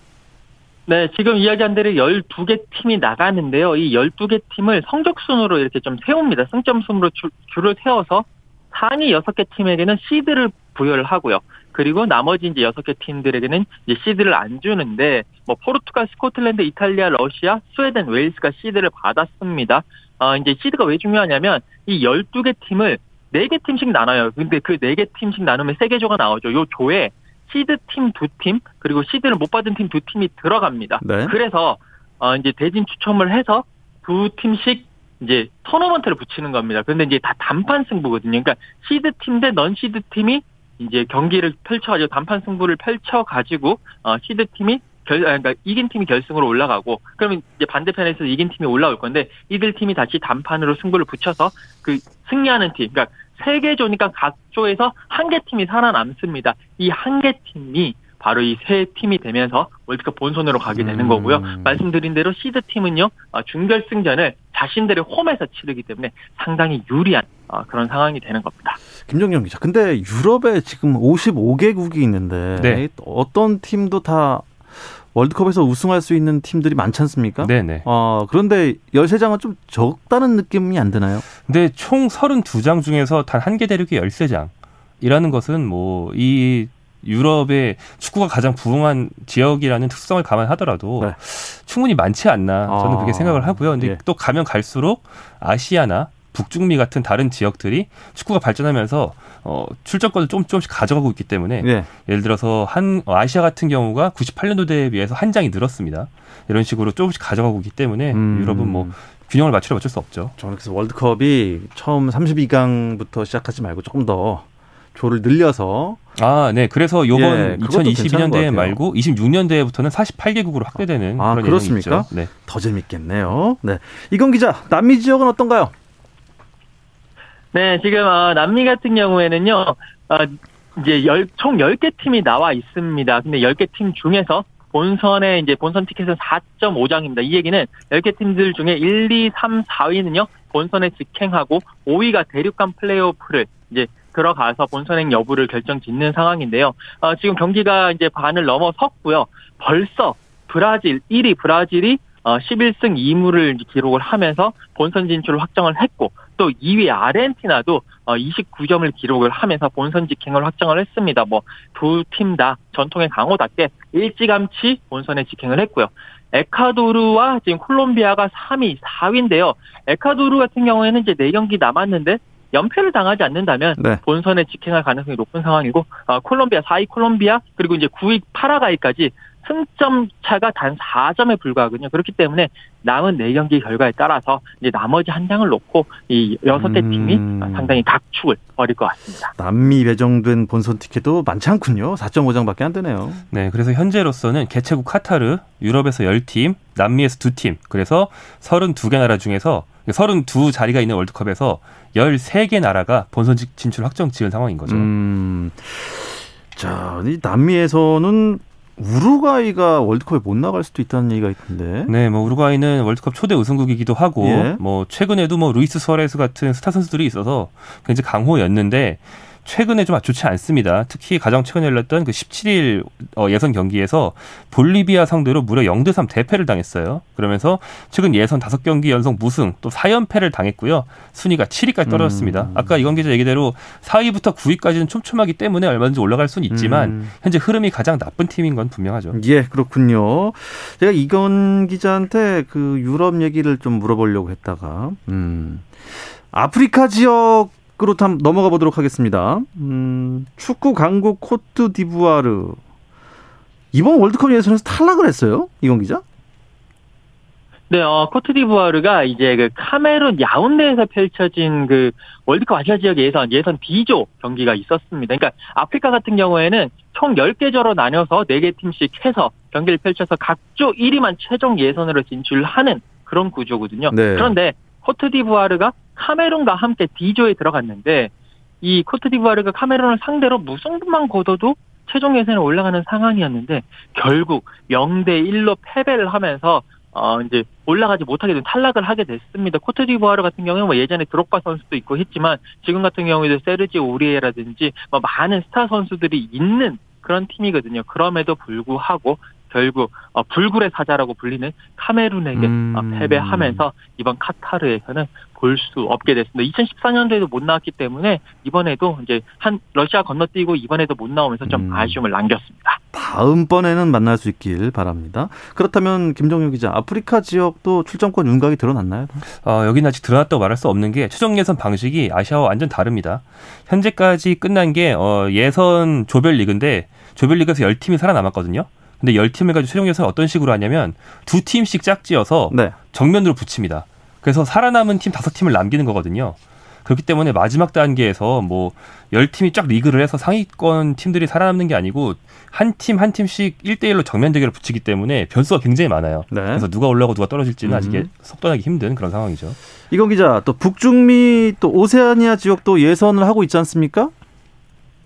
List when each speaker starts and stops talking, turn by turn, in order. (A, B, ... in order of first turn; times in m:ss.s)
0:00.9-1:08.8 A
0:31.0-0:31.3 B
1:00.7-1:01.8 B
1:09.1-1:21.2 B
1:12.6-1:12.8 C
1:17.4-1:17.8 C
1:21.4-1:50.3 C
1:32.7-1:34.0 B
1:41.6-1:41.9 B
1:48.1-1:48.9 B
1:50.4-1:56.0 B
1:56.2-2:02.3 C
1:57.1-1:58.8 B
2:01.2-2:05.7 B
2:07.5-3:09.3 A
3:06.5-3:07.8 B
3:09.4-3:13.2 B
3:13.3-3:24.9 C
3:24.7-3:31.9 B
3:31.9-3:59.2 C
3:34.2-3:34.6 B
3:51.8-3:52.7 B
3:56.5-3:57.1 B
3:59.1-4:12.6 B
4:13.7-4:16.0 B
4:17.7-5:12.8 A
4:33.9-4:34.3 B
5:02.3-5:03.6 B
5:11.4-5:12.0 B
5:12.9-5:19.2 B
5:19.4-5:49.6 C
5:32.5-5:32.8 B
5:46.3-5:46.7 B
5:47.6-5:48.1 B
5:49.9-5:54.1 B